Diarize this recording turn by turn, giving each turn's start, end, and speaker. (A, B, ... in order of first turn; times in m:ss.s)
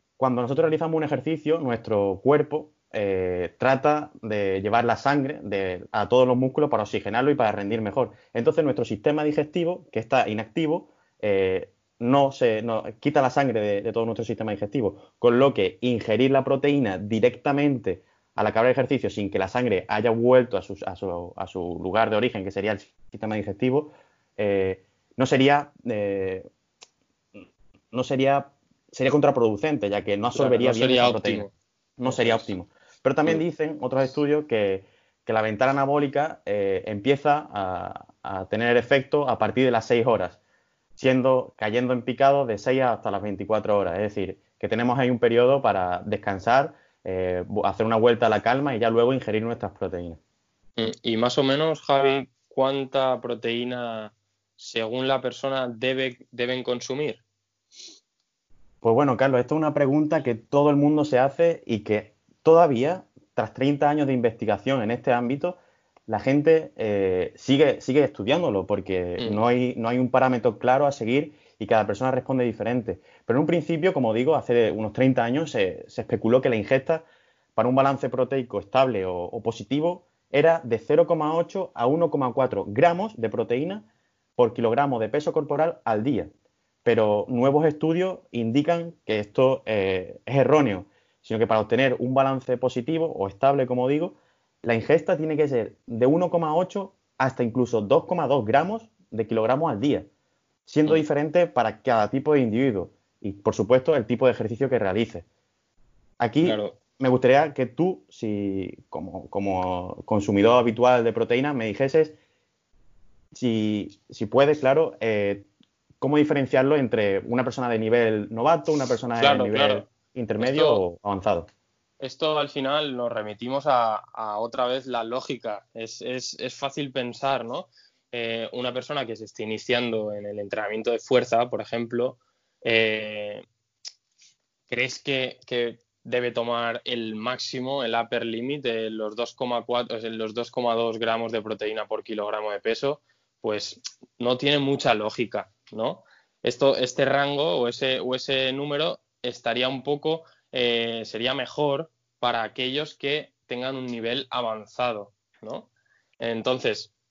0:00.2-0:26.5 A
0:27.9-0:31.4 A
0:30.3-0:31.5 B
0:32.0-0:40.4 A
0:32.0-0:32.5 B
0:41.0-0:50.2 A
0:50.8-0:57.2 B
0:58.8-1:26.3 A
1:26.8-1:40.1 A
1:40.7-1:45.2 A
1:46.2-1:52.2 A
1:46.4-1:46.8 B
1:53.3-1:55.5 A
1:56.0-2:01.5 A
1:59.2-1:59.8 B
2:00.4-2:00.8 B
2:02.0-2:13.4 B
2:14.7-2:36.9 B